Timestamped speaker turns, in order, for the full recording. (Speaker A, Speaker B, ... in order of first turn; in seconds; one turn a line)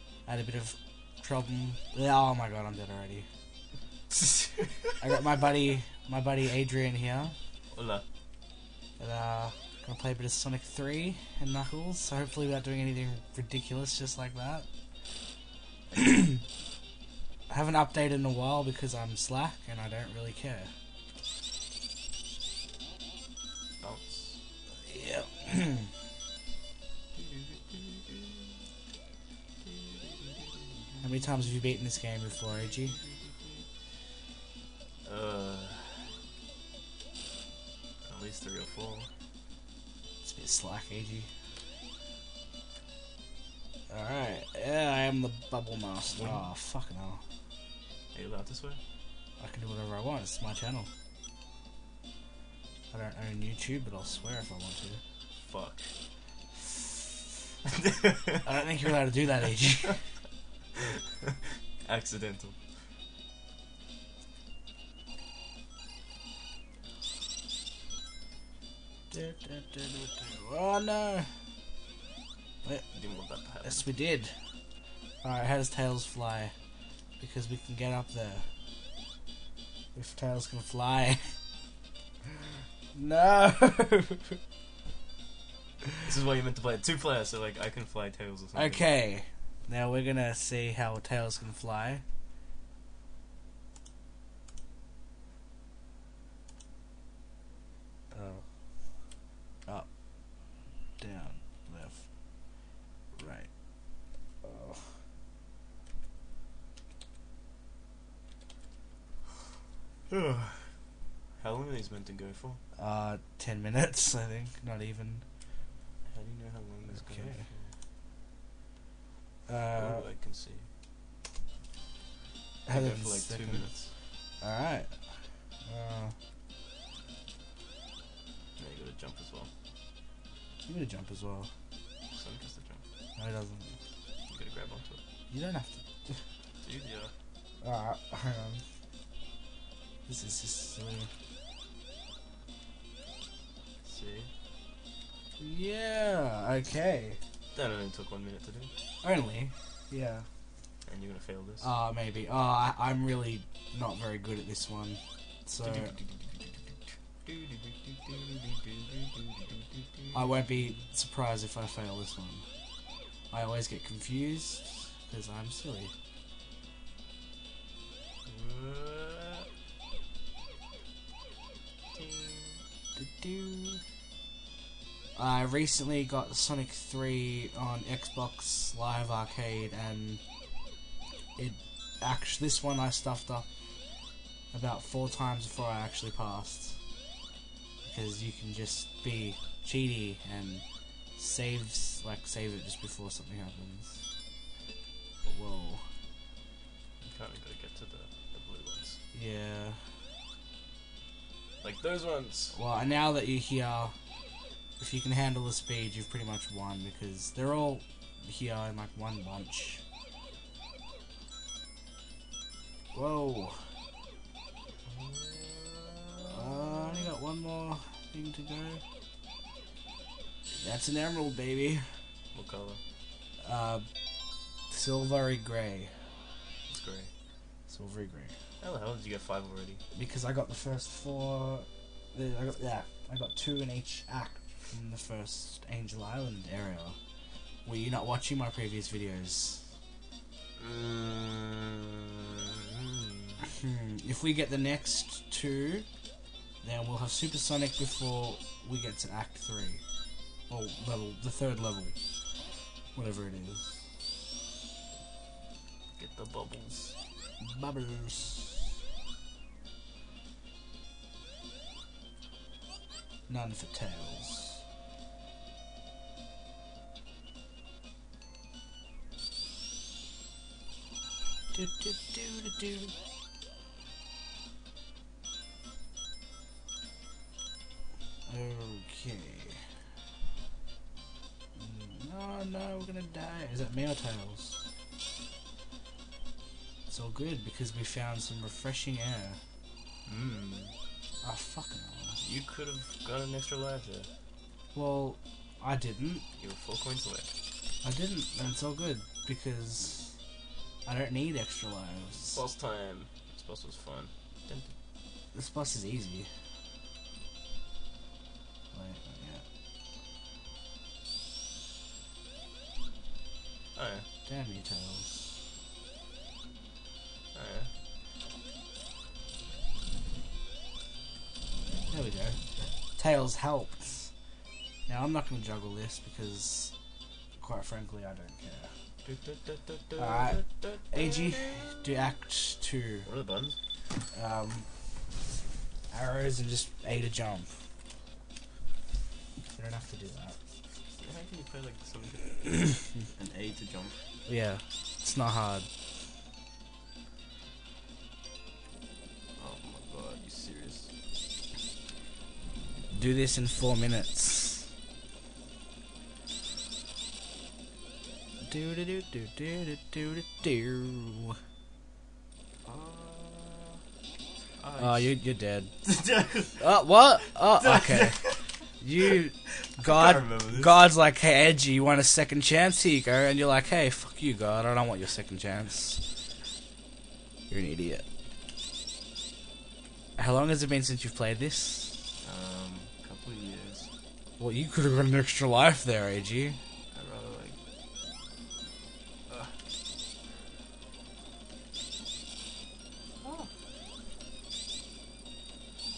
Speaker A: 0.3-3.3
Speaker B: 4.1-5.0
Speaker A: 5.0-7.3
Speaker B: 7.7-8.0
Speaker A: 9.0-14.7
Speaker A: 15.9-16.4
Speaker A: 17.5-20.7
Speaker B: 23.8-24.4
Speaker A: 24.9-25.9
Speaker B: 27.1-28.6
Speaker B: 29.6-31.3
Speaker A: 31.0-33.0
Speaker B: 32.8-33.6
Speaker B: 35.0-36.1
Speaker B: 38.0-39.1
Speaker A: 40.2-41.3
Speaker A: 43.9-47.2
Speaker B: 46.1-46.5
Speaker B: 48.1-48.8
Speaker A: 49.4-50.9
Speaker A: 52.9-55.0
Speaker B: 55.4-55.9
Speaker B: 57.7-58.5
Speaker A: 58.4-60.0
Speaker B: 60.8-62.6
Speaker A: 69.1-71.3
Speaker A: 72.6-72.9
Speaker B: 72.9-73.9
Speaker A: 73.6-74.4
Speaker A: 75.2-76.5
Speaker A: 77.2-78.5
Speaker A: 79.9-81.4
Speaker A: 82.9-84.4
Speaker B: 86.0-88.9
Speaker A: 88.5-92.0
Speaker A: 98.1-98.5
Speaker A: 99.7-99.9
Speaker A: 101.0-103.5
Speaker A: 104.4-105.0
Speaker B: 110.1-110.8
Speaker B: 111.4-112.6
Speaker A: 112.8-115.3
Speaker B: 116.1-117.8
Speaker A: 116.9-117.5
Speaker A: 119.5-120.1
Speaker B: 119.7-120.7
Speaker A: 122.7-123.8
Speaker B: 122.7-123.9
Speaker A: 124.4-126.2
Speaker B: 128.6-129.5
Speaker A: 130.7-131.5
Speaker B: 132.1-132.8
Speaker A: 133.2-133.8
Speaker B: 134.3-135.0
Speaker A: 135.3-136.2
Speaker B: 136.6-137.1
Speaker A: 137.6-138.6
Speaker A: 140.1-141.1
Speaker B: 143.8-144.3
Speaker A: 145.4-147.2
Speaker B: 147.5-148.7
Speaker A: 149.0-150.3
Speaker B: 150.9-151.7
Speaker A: 151.6-155.9
Speaker B: 155.6-156.7
Speaker B: 157.2-160.7
Speaker A: 160.1-162.4
Speaker A: 163.3-165.9
Speaker B: 168.3-169.5
Speaker B: 171.9-172.6
Speaker A: 173.0-173.8
Speaker A: 175.2-180.2
Speaker A: 181.4-183.5
Speaker A: 184.5-186.8
Speaker A: 187.8-190.6
Speaker A: 191.2-194.1
Speaker A: 195.2-195.8
Speaker B: 197.0-199.0
Speaker A: 199.1-199.8
Speaker B: 201.6-202.6
Speaker A: 202.5-203.9
Speaker A: 204.8-209.8
Speaker A: 212.9-213.7
Speaker B: 214.8-217.2
Speaker A: 216.3-218.8
Speaker A: 220.5-222.0
Speaker B: 222.3-222.8
Speaker A: 223.4-223.9
Speaker A: 224.7-226.1
Speaker B: 226.7-227.1
Speaker A: 227.7-228.3
Speaker B: 228.6-229.8
Speaker A: 229.9-237.0
Speaker A: 237.7-239.7
Speaker B: 240.6-243.4
Speaker A: 243.6-245.9
Speaker A: 246.6-249.8
Speaker A: 250.5-251.9
Speaker A: 252.9-253.9
Speaker B: 256.0-256.9
Speaker A: 257.4-258.7
Speaker A: 263.3-264.6
Speaker A: 271.5-272.9
Speaker A: 278.3-279.6
Speaker A: 281.6-284.7
Speaker A: 286.9-289.4
Speaker B: 290.1-290.7
Speaker A: 291.2-292.2
Speaker B: 292.2-294.1
Speaker A: 294.7-296.2
Speaker B: 296.4-297.3
Speaker A: 297.8-300.2
Speaker A: 300.9-302.4
Speaker B: 302.3-304.8
Speaker A: 305.3-306.3
Speaker A: 308.7-309.4
Speaker B: 313.7-314.1
Speaker A: 314.3-315.4
Speaker B: 317.3-317.7
Speaker A: 321.9-322.4
Speaker A: 322.9-324.1
Speaker A: 324.9-326.7
Speaker A: 327.4-328.7
Speaker B: 329.0-331.7
Speaker A: 330.0-333.1
Speaker B: 333.0-333.6
Speaker A: 334.1-334.9
Speaker A: 335.9-337.5
Speaker A: 339.5-340.4
Speaker B: 340.9-344.0
Speaker A: 344.3-345.7
Speaker B: 349.4-350.9
Speaker A: 352.9-354.7
Speaker A: 358.4-361.4
Speaker B: 362.6-363.8
Speaker B: 364.6-365.1
Speaker A: 364.8-365.8
Speaker B: 365.8-366.7
Speaker A: 366.6-368.2
Speaker B: 367.4-370.9
Speaker A: 368.8-376.0
Speaker A: 377.5-378.1
Speaker A: 380.2-382.1
Speaker B: 382.2-383.9
Speaker A: 384.4-386.6
Speaker B: 386.9-387.6
Speaker B: 389.3-389.6
Speaker B: 393.2-393.5